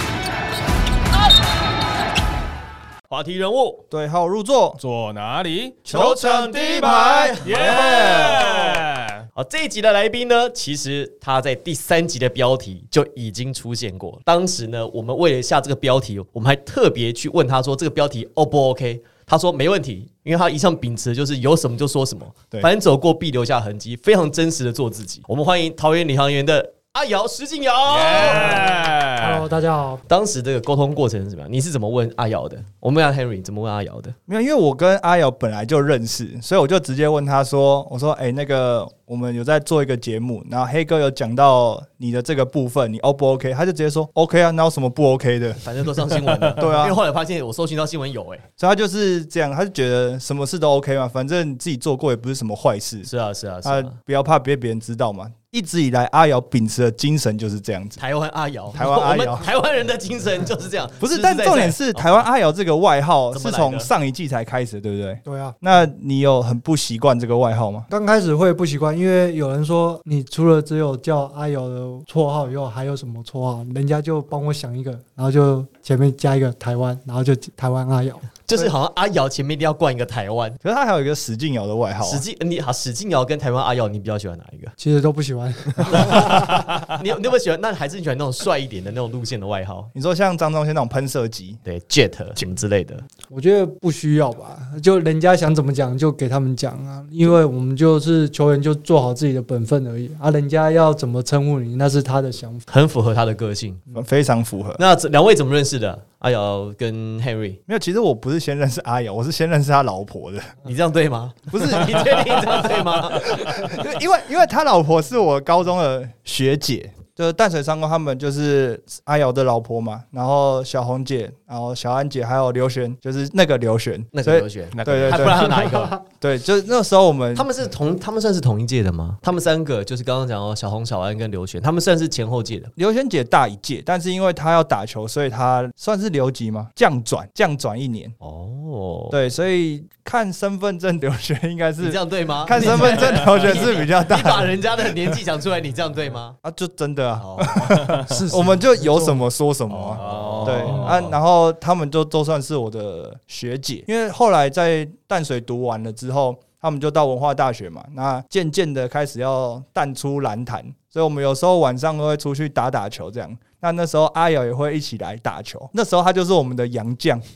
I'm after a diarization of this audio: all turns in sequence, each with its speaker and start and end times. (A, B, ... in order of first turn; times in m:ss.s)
0:03.1-0:03.8 A
0:03.9-0:04.8 B
0:04.8-0:05.9 C
0:05.8-0:08.5 B
0:05.9-0:08.8 A
0:06.9-0:09.2 C
0:09.3-0:28.7 A
0:27.8-0:29.5 C
0:29.2-0:30.0 D
0:30.1-0:34.1 A
0:34.3-0:45.6 B
0:45.6-0:48.4 A
0:46.6-0:47.0 B
0:48.6-0:53.1 B
0:53.0-0:54.0 A
0:53.6-0:58.0 B
0:58.0-1:02.2 A
0:58.7-0:59.4 B
1:01.0-1:07.9 B
1:03.3-1:03.9 A
1:05.2-1:05.5 D
1:07.9-1:18.3 D
1:18.5-1:20.6 A
1:20.6-1:22.2 B
1:22.0-1:24.7 A
1:24.8-1:26.9 D
1:25.9-1:29.9 A
1:29.9-1:31.6 B
1:31.6-1:33.0 A
1:33.3-1:42.7 D
1:42.7-1:43.8 A
1:43.9-1:44.8 B
1:44.8-1:47.6 A
1:47.7-1:50.5 B
1:50.6-1:53.6 A
1:51.5-2:05.5 B
2:04.1-2:05.9 A
2:04.7-2:05.5 C
2:05.4-2:06.0 D
2:06.2-2:07.5 B
2:07.3-2:12.7 A
2:12.8-2:18.1 B
2:18.2-2:19.2 A
2:19.1-2:25.1 B
2:21.8-2:26.4 A
2:26.4-2:47.2 B
2:27.2-2:27.9 A
2:27.6-2:28.0 C
2:28.0-2:29.2 D
2:29.7-2:31.2 A
2:30.0-2:30.9 C